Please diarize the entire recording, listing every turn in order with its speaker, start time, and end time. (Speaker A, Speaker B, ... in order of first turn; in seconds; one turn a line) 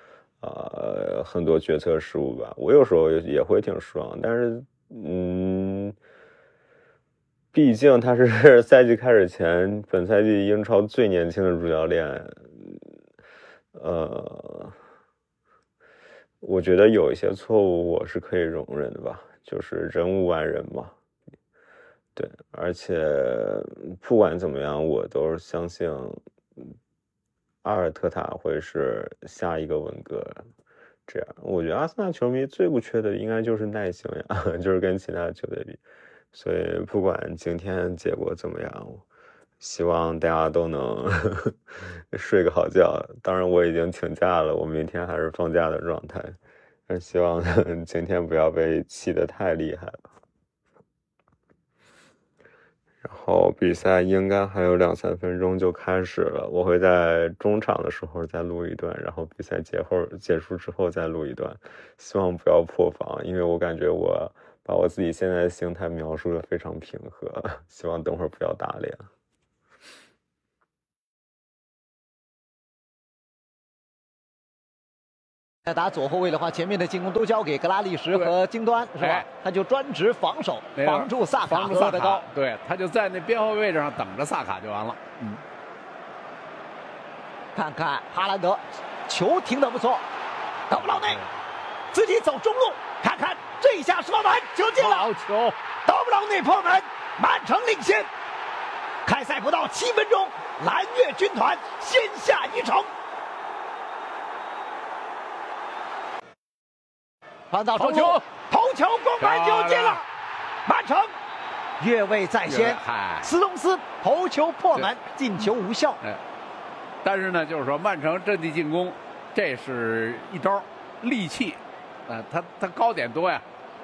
Speaker A: 0.4-6.0
Speaker A: 7.5-12.8
Speaker A: 13.7-14.8
Speaker A: 16.4-20.9
Speaker A: 22.1-26.7
Speaker A: 27.6-30.4
Speaker A: 31.1-35.8
Speaker A: 36.3-39.0
Speaker A: 39.6-46.4
Speaker A: 46.9-50.1
Speaker A: 53.0-69.1
Speaker B: 75.7-82.2
Speaker C: 79.0-79.2
Speaker C: 80.8-85.3
Speaker B: 87.5-90.0
Speaker B: 90.7-91.2
Speaker C: 90.8-91.3
Speaker B: 91.9-95.1
Speaker C: 94.8-95.5
Speaker B: 95.8-98.1
Speaker B: 99.0-102.9
Speaker B: 107.5-110.0
Speaker C: 107.8-108.2
Speaker C: 109.2-110.0
Speaker B: 110.7-111.1
Speaker B: 111.8-116.0
Speaker C: 112.5-113.3
Speaker C: 117.0-123.4